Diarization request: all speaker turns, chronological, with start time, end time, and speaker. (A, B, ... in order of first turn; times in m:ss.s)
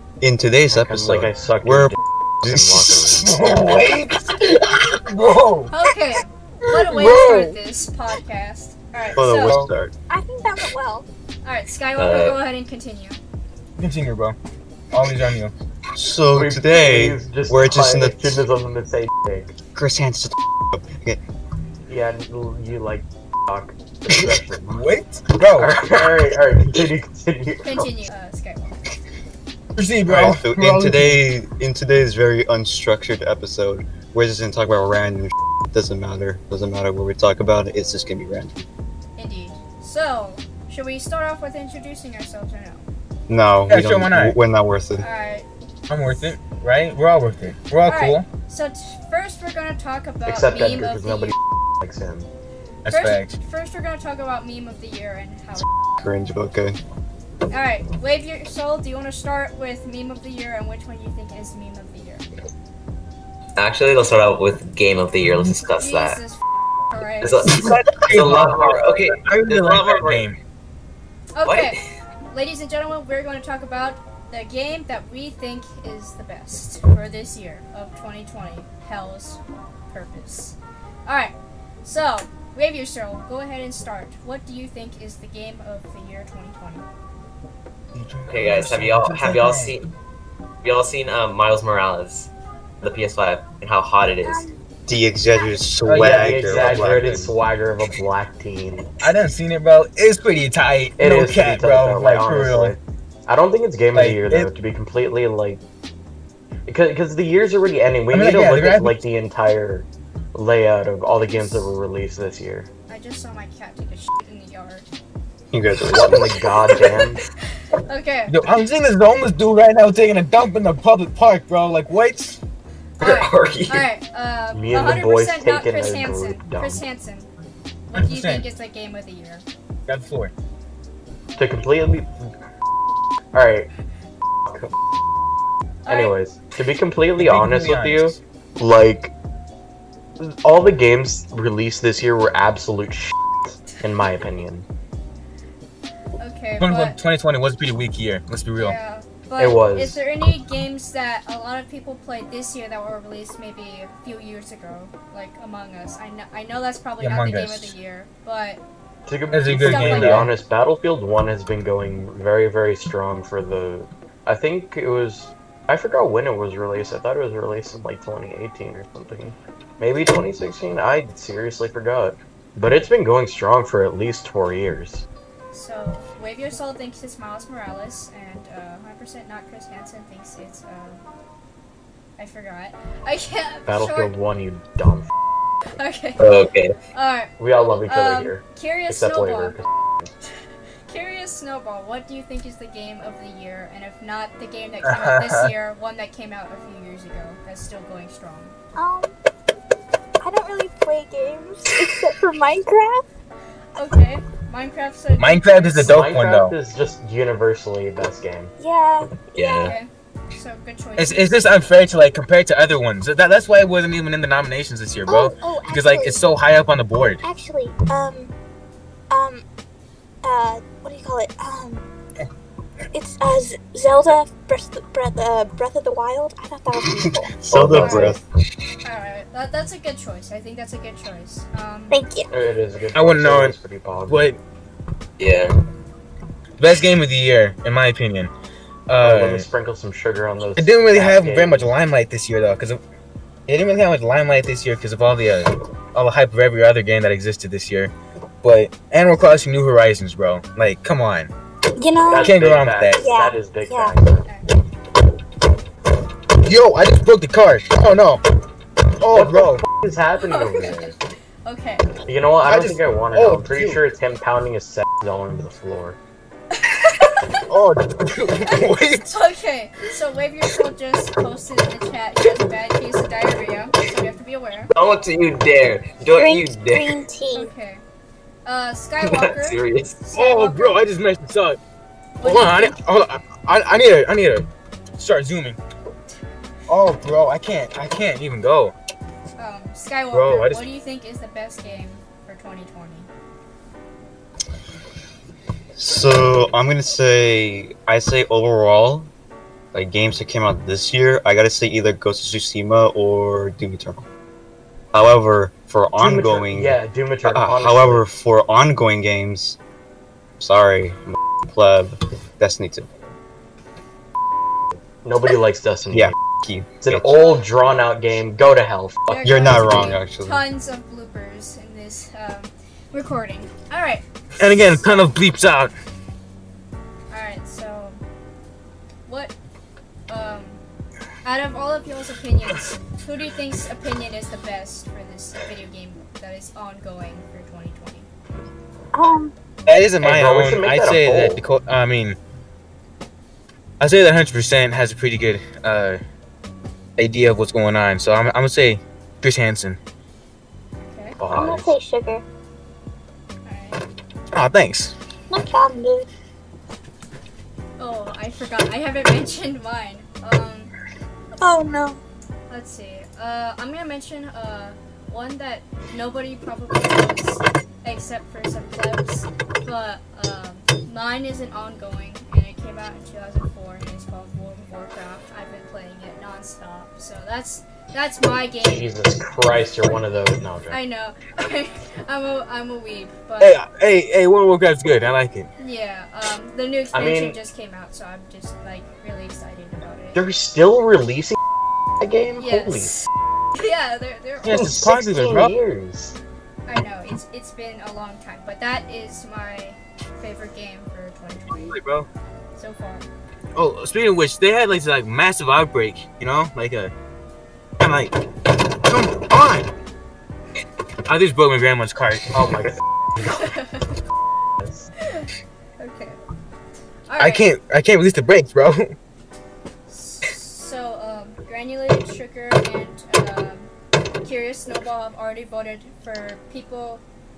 0:00.2-0:03.4 A
0:00.7-0:03.8 B
0:03.2-0:05.7 C
0:05.7-0:09.6 D
0:06.7-0:07.5 C
0:07.0-0:07.4 E
0:09.2-0:09.9 A
0:09.4-0:09.7 C
0:10.1-0:11.1 E
0:11.4-0:13.2 D
0:12.0-0:12.4 F
0:13.8-0:14.4 C
0:14.9-0:15.5 C
0:15.9-0:18.4 A
0:16.3-0:19.5 B
0:19.7-0:21.2 A
0:21.9-0:24.9 B
0:24.1-0:26.1 C
0:25.5-0:27.9 B
0:27.6-0:28.8 D
0:29.8-0:31.2 C
0:30.1-0:38.6 A
0:39.2-0:42.9 D
0:43.3-0:45.0 A
0:43.7-0:44.4 C
0:45.0-0:45.5 D
0:45.9-0:48.3 C
0:47.8-0:51.3 D
0:50.2-0:52.3 B
0:52.8-0:53.4 C
0:52.9-0:55.6 D
0:56.0-0:56.8 A
0:57.5-1:02.2 D
1:03.6-1:06.2 F
1:05.8-1:07.6 D
1:07.2-1:10.3 F
1:07.6-1:10.4 C
1:11.4-1:26.8 D
1:11.4-1:11.8 F
1:27.9-1:29.8 C
1:28.3-1:29.9 F
1:30.6-1:32.3 F
1:32.8-1:34.5 F
1:34.2-1:34.6 E
1:34.9-1:37.3 A
1:35.8-1:37.2 C
1:35.9-1:38.9 B
1:38.9-1:42.8 C
1:41.0-1:45.6 B
1:43.9-1:44.5 C
1:46.7-1:52.7 B
1:48.1-1:49.0 C
1:51.3-1:51.7 D
1:52.9-1:54.9 D
1:55.5-1:56.4 A
1:55.9-1:57.2 B
1:57.9-1:58.4 D
1:58.3-2:02.4 C
2:03.0-2:07.3 D
2:03.0-2:03.8 F
2:04.5-2:06.8 B
2:07.9-2:09.4 D
2:07.9-2:08.4 C
2:09.9-2:10.3 C
2:11.4-2:12.3 B
2:13.3-2:13.7 B
2:15.8-2:16.2 D
2:15.9-2:19.1 B
2:17.2-2:18.2 C
2:20.2-2:23.1 B
2:23.8-2:24.6 B
2:26.2-2:27.0 D
2:26.6-2:28.8 C
2:28.6-2:38.6 D
2:29.4-2:30.0 B
2:37.0-2:37.7 C
2:39.0-2:55.0 B
2:39.3-2:40.3 C
2:39.5-2:40.3 D
2:55.5-3:01.0 D
3:02.2-3:04.1 D
3:03.7-3:05.1 B
3:05.8-3:06.4 D
3:06.2-3:06.7 F
3:06.9-3:07.3 D
3:07.4-3:09.6 B
3:07.8-3:09.6 D
3:10.9-3:18.6 D
3:14.8-3:15.5 C
3:18.8-3:19.1 E
3:20.2-3:23.0 E
3:23.8-3:26.0 D
3:25.2-3:26.6 C
3:25.8-3:28.5 B
3:28.6-3:29.8 E
3:29.3-3:29.7 F
3:29.6-3:31.8 D
3:31.0-3:37.2 C
3:35.0-3:36.2 E
3:37.2-3:38.3 E
3:39.1-3:39.4 E
3:40.2-3:41.9 E
3:42.9-3:47.3 E
3:47.4-3:48.2 A
3:47.5-3:48.1 F
3:47.5-3:48.2 B
3:47.8-3:48.1 D
3:48.8-3:52.0 D
3:51.9-3:52.3 E
3:52.3-3:54.3 B
3:52.9-3:53.6 C
3:54.1-3:54.4 C
3:55.2-3:55.5 F
3:56.6-3:58.3 C
3:58.9-3:59.5 C
3:59.0-4:01.7 B
4:00.6-4:02.8 C
4:03.5-4:07.9 C
4:08.4-4:11.3 C
4:11.8-4:12.4 E
4:12.1-4:14.3 B
4:12.2-4:13.0 C
4:13.0-4:13.9 E
4:14.2-4:14.5 D
4:16.4-4:18.2 C
4:19.0-4:19.6 C
4:19.1-4:21.0 B
4:20.2-4:20.9 D
4:21.4-4:21.9 D
4:22.0-4:26.0 B
4:22.4-4:23.8 C
4:26.5-4:27.4 D
4:27.5-4:29.1 C
4:28.4-4:34.7 D
4:34.7-4:37.0 F
4:36.1-4:37.5 E
4:37.3-4:37.8 D
4:38.4-4:40.8 D
4:39.0-4:40.0 F
4:40.1-4:41.6 C
4:42.2-4:42.8 D
4:42.2-4:44.4 C
4:45.0-4:45.6 C
4:46.7-4:48.7 C
4:49.4-4:53.1 D
4:50.1-4:50.6 C
4:55.8-4:59.1 A
4:59.7-5:04.0 A
5:04.9-5:09.6 A
5:06.0-5:08.0 B
5:10.4-5:12.9 A
5:15.0-5:16.1 B
5:15.9-5:17.2 A
5:16.8-5:19.9 B
5:17.1-5:17.5 D
5:19.1-5:25.1 D
5:19.2-5:20.4 A
5:24.4-5:25.7 C
5:27.1-5:28.0 D
5:29.1-5:29.3 D
5:30.1-5:30.6 D
5:31.2-5:38.1 D
5:38.9-5:39.3 E
5:39.7-5:42.2 C
5:40.0-5:41.4 B
5:43.8-5:46.0 C
5:47.0-5:49.8 C
5:50.8-5:51.2 D
5:51.2-5:51.7 B
5:51.3-5:52.2 E
5:53.4-5:53.8 D
5:54.3-5:54.9 C
5:55.3-5:56.1 E
5:57.8-6:00.7 D
6:01.4-6:02.0 E
6:02.5-6:18.9 D
6:18.6-6:20.8 B
6:20.7-6:23.6 D
6:23.4-6:25.5 C
6:25.6-6:30.2 D
6:26.9-6:27.4 B
6:30.1-6:31.4 B
6:32.0-6:32.9 B
6:32.4-6:34.7 D
6:34.4-6:35.5 C
6:34.5-6:36.1 B
6:36.7-6:41.8 D
6:41.5-6:42.1 C
6:42.6-6:43.0 D
6:43.6-6:46.9 C
6:47.8-6:49.7 C
6:51.1-6:52.7 C
6:52.3-6:52.8 B
6:53.2-6:53.9 D
6:55.0-6:56.2 D
6:57.1-6:57.4 D
6:57.2-6:59.0 C
6:59.9-7:03.7 D
7:04.2-7:07.0 D